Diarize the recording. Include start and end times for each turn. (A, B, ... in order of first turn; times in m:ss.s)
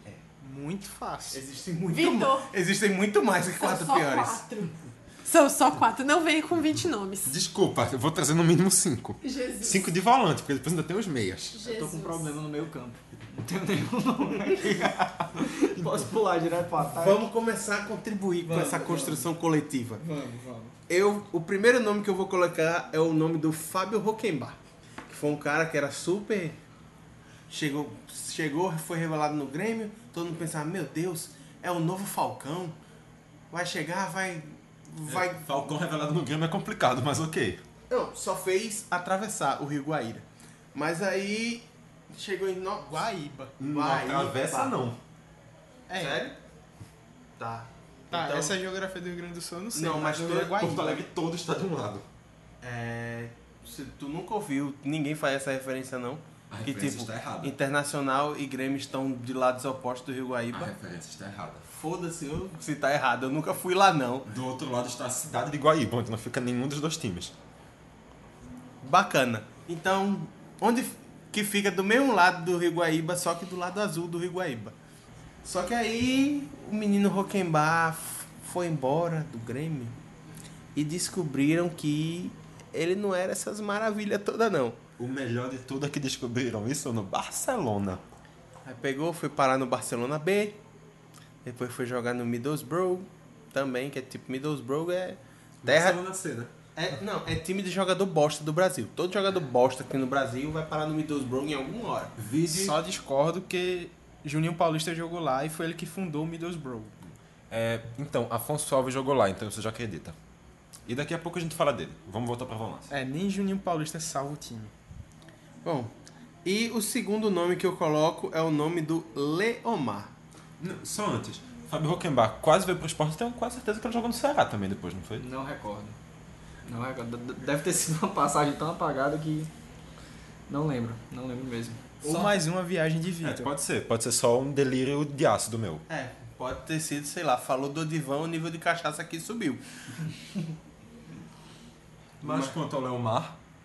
0:00.4-0:01.4 A
0:01.3-0:04.4 B
0:01.9-0:02.5 C
0:03.6-0:07.4 C
0:07.2-0:11.6 D
0:09.2-0:09.9 C
0:11.5-0:12.4 C
0:11.7-0:17.3 E
0:15.8-0:16.1 D
0:16.9-0:20.0 B
0:18.4-0:19.3 E
0:20.0-0:20.8 E
0:20.9-0:26.6 B
0:27.5-0:32.8 B
0:33.5-0:35.4 B
0:35.1-0:37.6 D
0:37.9-0:44.7 B
0:42.8-0:43.5 A
0:43.6-0:45.0 D
0:45.9-0:46.3 A
0:46.0-0:46.4 B
0:47.4-0:48.6 B
0:48.1-0:50.9 A
0:49.7-0:51.0 B
0:50.6-0:52.1 D
0:52.6-1:00.7 B
0:56.5-0:57.6 D
1:00.5-1:01.7 D
1:01.7-1:04.3 B
1:04.3-1:07.4 D
1:08.8-1:14.8 B
1:15.4-1:20.0 B
1:20.8-1:24.8 B
1:25.0-1:28.0 D
1:28.6-1:30.6 B
1:31.4-1:36.0 B
1:35.6-1:37.0 D
1:36.8-1:42.2 B
1:42.2-1:42.8 D
1:42.5-1:46.9 A
1:47.5-1:50.2 D
1:50.9-1:52.9 D
1:52.9-1:54.7 A
1:55.6-1:55.9 B
1:56.4-2:00.1 B
2:00.6-2:05.2 D
2:05.2-2:06.0 E
2:06.6-2:09.5 E
2:10.5-2:11.9 E
2:12.0-2:13.5 A
2:13.2-2:15.8 D
2:15.9-2:19.6 B
2:22.2-2:23.4 D
2:22.2-2:22.5 B